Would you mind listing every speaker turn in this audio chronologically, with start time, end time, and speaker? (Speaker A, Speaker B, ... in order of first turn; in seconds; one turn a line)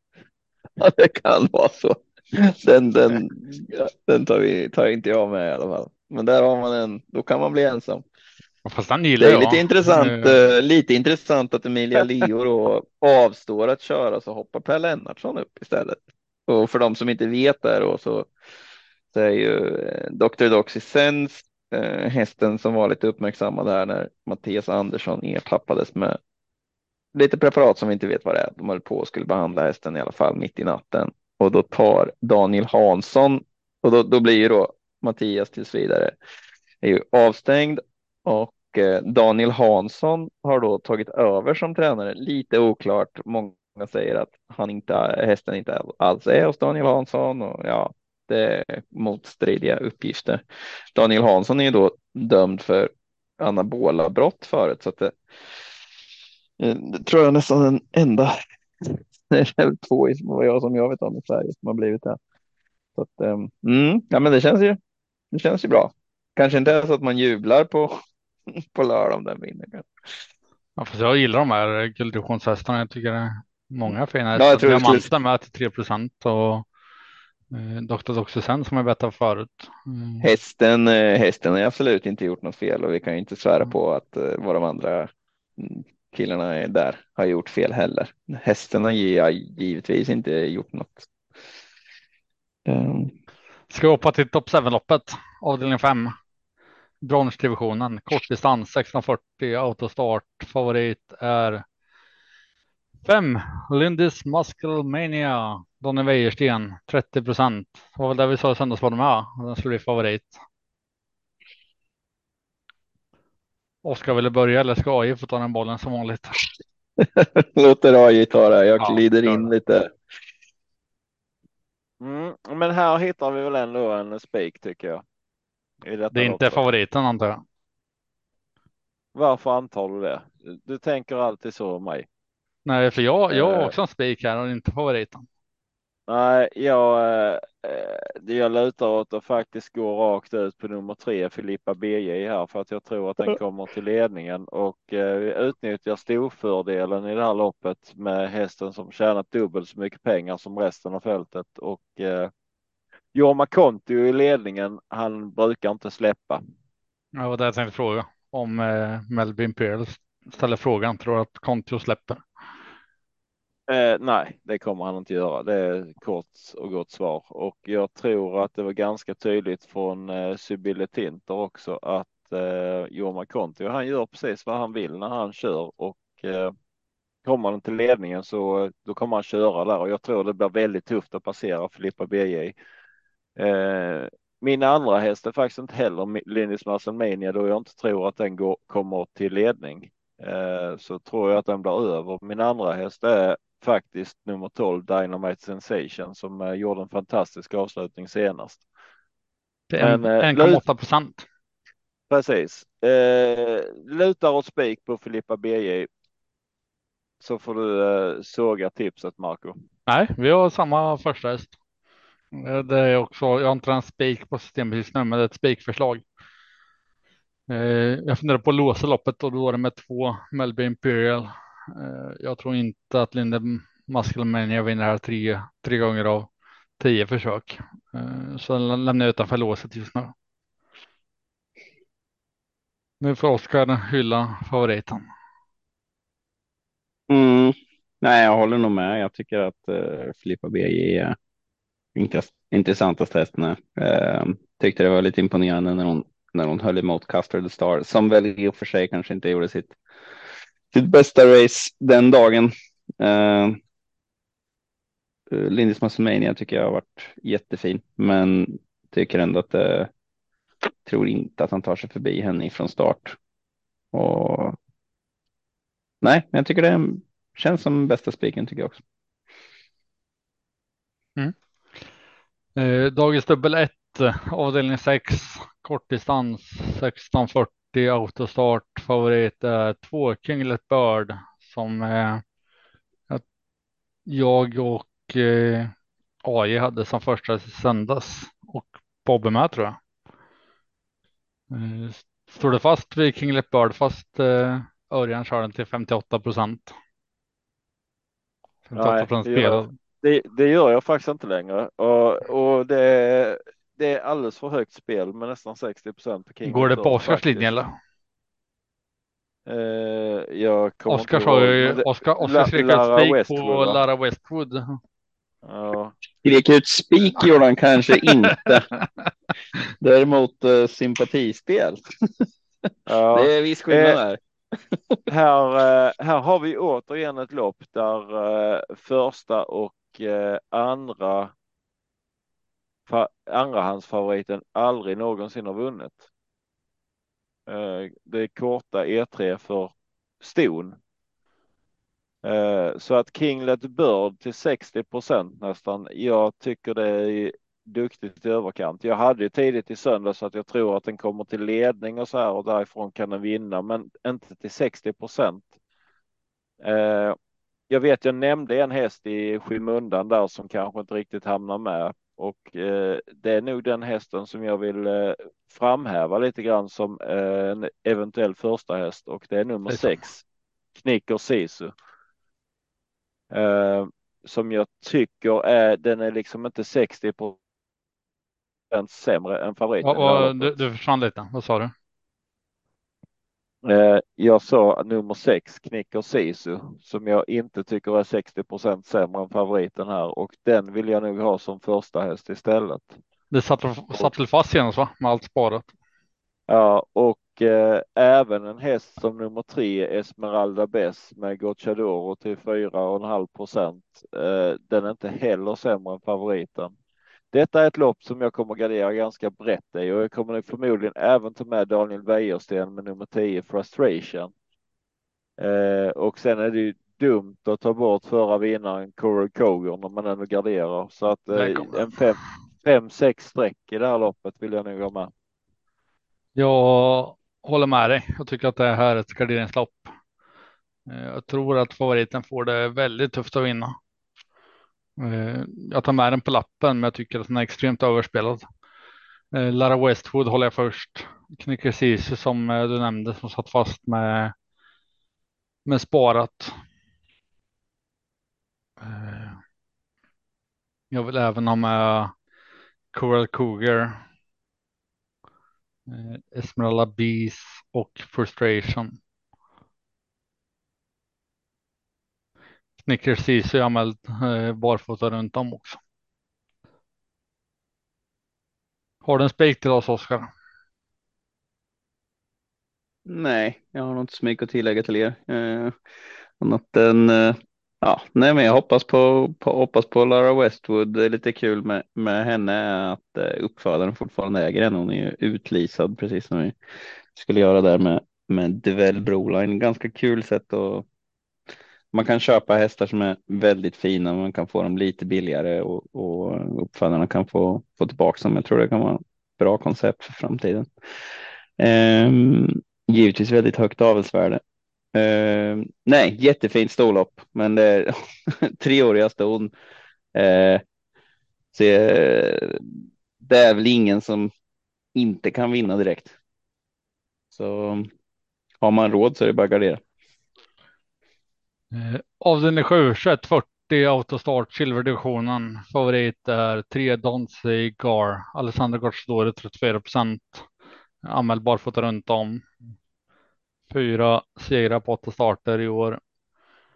Speaker A: 0.8-8.0
Speaker B: 8.6-10.4
Speaker A: 9.2-18.3
Speaker A: 19.1-26.1
Speaker A: 27.1-36.1
Speaker A: 36.8-50.4
Speaker A: 50.9-55.1
Speaker A: 56.6-62.2
Speaker A: 63.0-64.8
Speaker A: 65.3-67.9
Speaker A: 68.5-69.9
Speaker B: 70.8-76.7
Speaker A: 74.3-75.1
Speaker B: 77.5-80.3
Speaker A: 80.2-91.1
Speaker A: 92.7-93.1
Speaker B: 93.7-96.1
Speaker B: 97.0-101.6
Speaker B: 103.0-110.4
Speaker B: 113.8-116.3
Speaker A: 117.0-119.9
Speaker B: 118.8-119.5
Speaker C: 122.0-125.0
Speaker C: 125.8-126.6
Speaker B: 126.1-127.4
Speaker C: 129.1-132.1
Speaker B: 132.7-135.3
Speaker C: 133.3-133.7
Speaker C: 136.1-152.3
Speaker C: 153.1-156.4
Speaker B: 157.2-162.2
Speaker C: 163.7-176.5
Speaker C: 177.2-182.5
Speaker C: 183.3-198.6
Speaker B: 199.7-201.2
Speaker C: 199.8-200.6
Speaker C: 202.1-205.9
Speaker C: 207.2-209.6
Speaker B: 209.9-211.5
Speaker B: 212.3-216.0
Speaker B: 217.5-230.1
Speaker B: 233.0-235.0
Speaker A: 237.1-241.2
Speaker A: 241.9-249.8
Speaker A: 250.7-253.6
Speaker A: 255.3-259.9
Speaker A: 260.8-263.2
Speaker A: 263.9-264.6
Speaker A: 266.0-268.8
Speaker B: 272.6-282.2
Speaker B: 284.1-285.7
Speaker B: 286.2-289.8
Speaker B: 291.5-296.7
Speaker B: 298.7-299.7
Speaker C: 298.7-307.6
Speaker B: 306.4-307.7
Speaker C: 309.4-313.8
Speaker B: 310.9-314.8
Speaker C: 315.4-315.9
Speaker A: 316.2-318.7
Speaker A: 319.8-325.1
Speaker C: 322.9-324.0
Speaker C: 325.1-331.3
Speaker C: 332.9-336.1
Speaker C: 337.5-340.8
Speaker C: 342.2-355.5
Speaker C: 356.6-357.1
Speaker C: 357.7-370.2
Speaker B: 369.7-370.0
Speaker C: 370.8-371.7
Speaker C: 373.3-377.4
Speaker C: 378.7-380.6
Speaker B: 379.8-381.7
Speaker C: 383.6-393.0
Speaker B: 393.3-395.7
Speaker C: 396.5-406.7
Speaker C: 407.3-414.3
Speaker C: 415.4-425.1
Speaker B: 421.3-421.9
Speaker B: 426.4-429.9
Speaker B: 430.9-433.8
Speaker B: 435.0-438.4
Speaker B: 439.3-444.3
Speaker B: 445.6-446.6
Speaker B: 448.8-449.4
Speaker B: 450.9-452.1
Speaker B: 452.9-454.0
Speaker B: 455.9-459.0
Speaker B: 462.8-465.8
Speaker B: 469.0-470.3
Speaker A: 473.1-475.7
Speaker A: 476.4-486.5
Speaker A: 487.1-490.9
Speaker A: 491.9-500.7
Speaker A: 501.6-504.4
Speaker A: 504.9-509.5
Speaker A: 510.1-510.6
Speaker A: 511.5-514.3
Speaker A: 514.9-516.1
Speaker A: 517.3-517.9
Speaker A: 518.6-519.8
Speaker B: 521.7-530.5
Speaker B: 531.0-532.5
Speaker B: 533.7-536.0